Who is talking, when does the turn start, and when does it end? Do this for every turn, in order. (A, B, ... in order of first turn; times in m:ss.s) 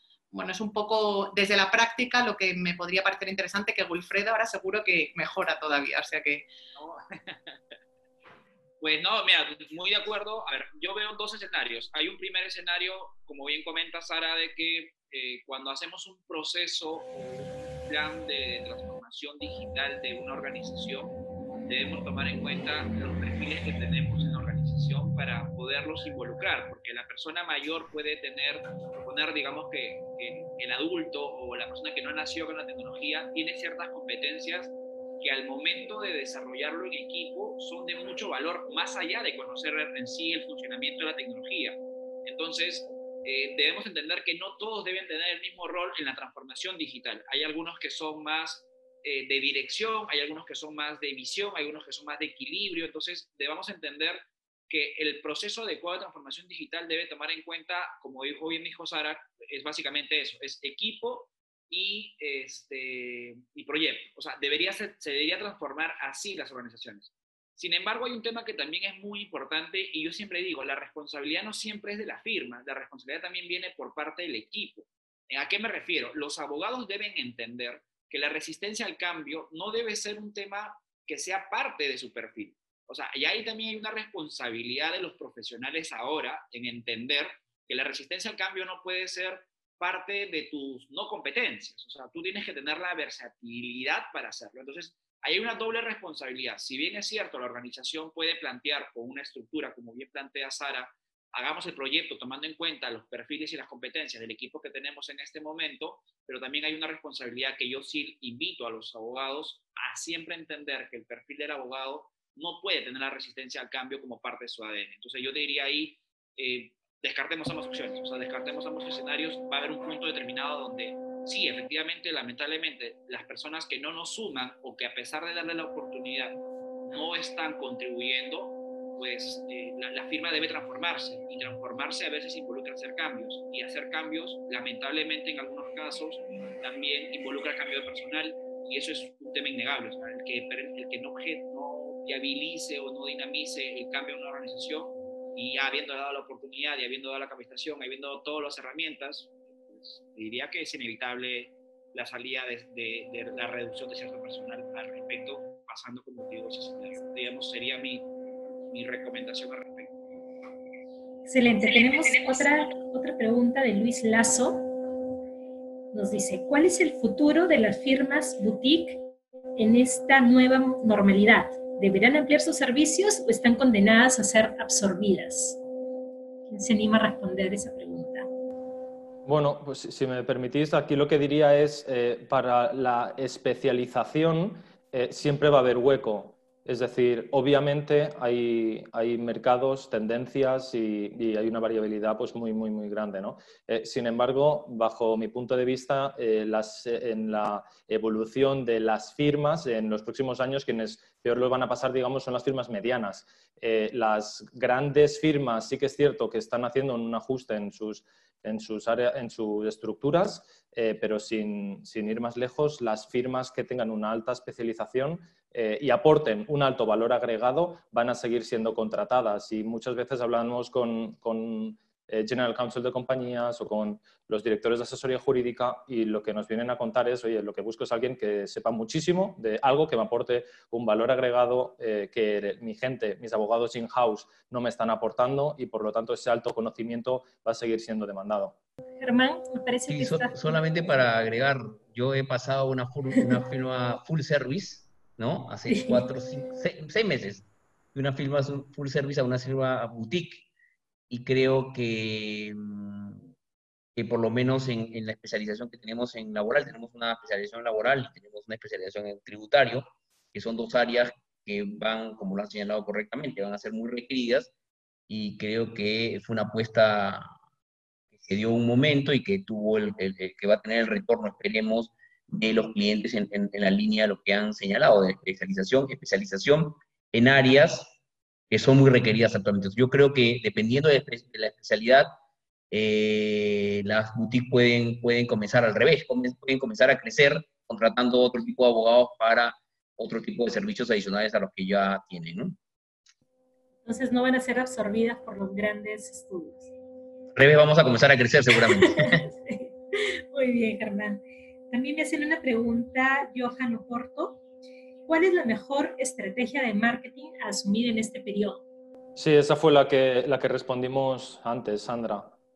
0:00.3-0:06.4 A
0:06.8-0:07.6 B
0:08.8-0:21.1 B
0:21.6-2:06.4 B
2:06.9-2:38.1 B
2:38.7-2:39.9 B
2:41.3-2:44.7 C
2:45.9-2:49.0 C
2:49.6-2:55.6 C
2:56.5-2:58.3 C
2:59.2-3:58.5 D
3:59.0-4:00.6 C
3:59.9-4:10.4 E
4:05.7-4:06.0 C
4:11.1-4:13.3 E
4:14.0-4:24.5 E
4:25.1-4:27.3 E
4:28.2-4:37.9 E
4:38.5-4:42.1 E
4:42.7-4:52.6 E
4:53.8-4:56.7 C
4:57.3-4:59.2 E
4:58.6-5:01.2 C
5:01.7-5:04.4 C
5:05.1-5:08.6 C
5:09.2-5:12.3 D